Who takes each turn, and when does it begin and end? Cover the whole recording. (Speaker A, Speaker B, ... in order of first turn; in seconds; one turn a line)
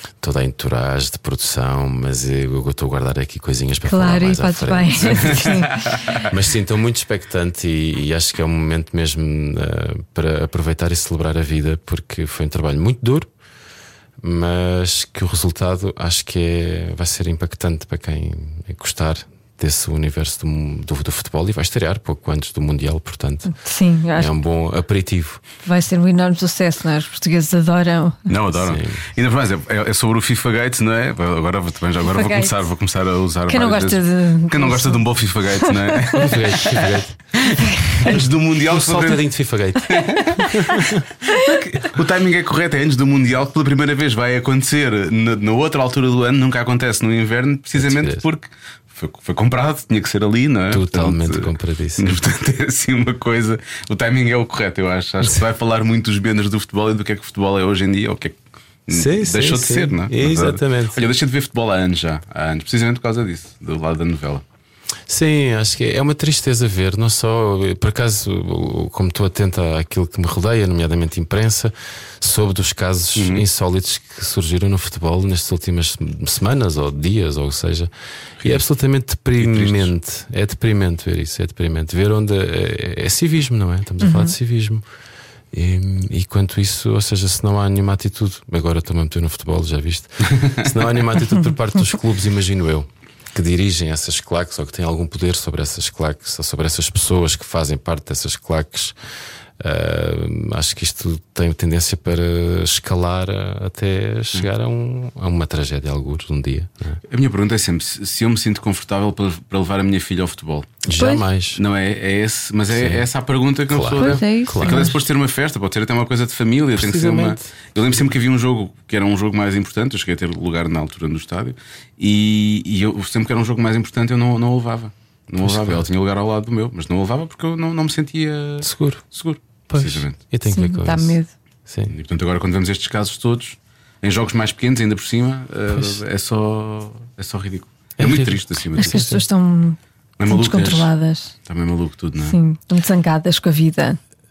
Speaker A: 0.2-5.6
Speaker B: 3.9-6.0
Speaker A: 6.3-13.3
Speaker A: 14.2-23.5
Speaker B: 23.5-24.4
Speaker A: 24.1-25.4
Speaker B: 25.6-28.3
Speaker C: 28.3-36.8
Speaker A: 28.6-29.0
Speaker B: 32.0-32.6
Speaker B: 33.5-36.7
Speaker A: 36.1-37.1
Speaker C: 37.4-39.2
Speaker B: 37.5-38.1
Speaker A: 38.1-41.0
Speaker C: 39.9-58.4
Speaker A: 47.8-48.2
Speaker A: 50.7-52.2
Speaker C: 58.9-64.4
Speaker A: 58.9-61.0
Speaker A: 65.1-77.9
Speaker C: 73.2-73.4
Speaker A: 78.4-84.8
Speaker C: 79.4-79.9
Speaker B: 84.0-84.3
Speaker A: 85.5-99.0
Speaker A: 99.6-107.0
Speaker C: 107.1-110.8
Speaker A: 110.8-111.6
Speaker B: 110.9-111.2
Speaker C: 111.6-130.2
Speaker A: 112.7-113.1
Speaker A: 113.7-114.9
Speaker B: 114.0-115.0
Speaker A: 116.8-117.5
Speaker A: 125.4-125.9
Speaker A: 128.6-129.0
Speaker A: 129.7-131.9
Speaker B: 130.4-131.3
Speaker C: 131.9-139.0
Speaker A: 135.7-136.0
Speaker A: 138.0-139.3
Speaker B: 138.8-141.3
Speaker C: 140.2-140.9
Speaker C: 141.5-142.4
Speaker B: 142.2-144.0